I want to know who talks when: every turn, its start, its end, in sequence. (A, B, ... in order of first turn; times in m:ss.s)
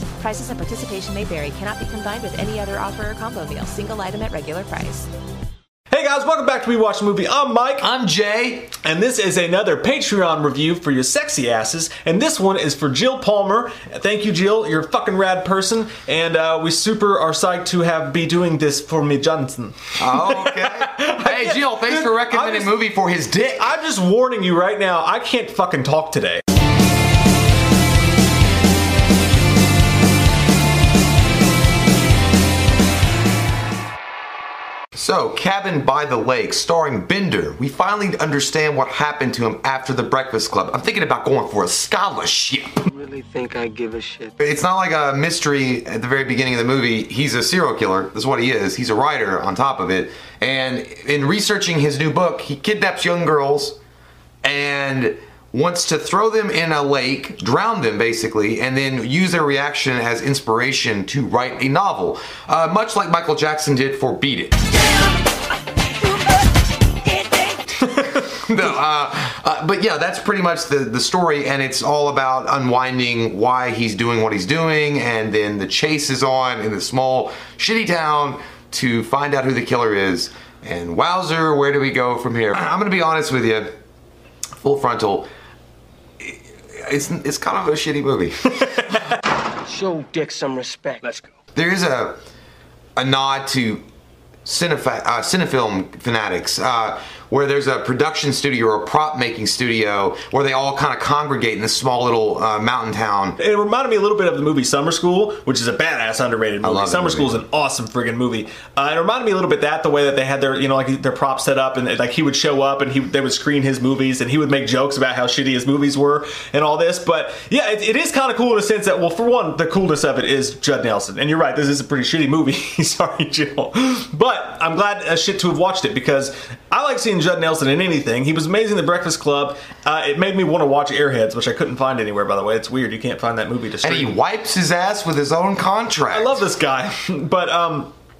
0:00.2-0:05.1 A
0:05.9-0:07.9 B
0:07.8-0:08.7 C
0:08.8-0:22.8 B
0:20.0-0:23.7 C
0:23.6-0:26.4 B
0:35.0-0:42.8 C
0:42.9-0:44.3 D
0:44.4-0:53.8 C
0:54.4-1:04.7 C
1:08.2-1:23.7 C
1:24.6-1:25.3 C
1:26.2-1:28.6 C
1:29.7-1:31.3 D
1:31.6-1:32.2 C
1:33.0-1:33.8 C
1:34.4-1:43.4 C
1:43.4-2:14.2 B
1:46.6-1:47.4 C
2:13.8-2:16.4 C
2:16.1-2:17.9 B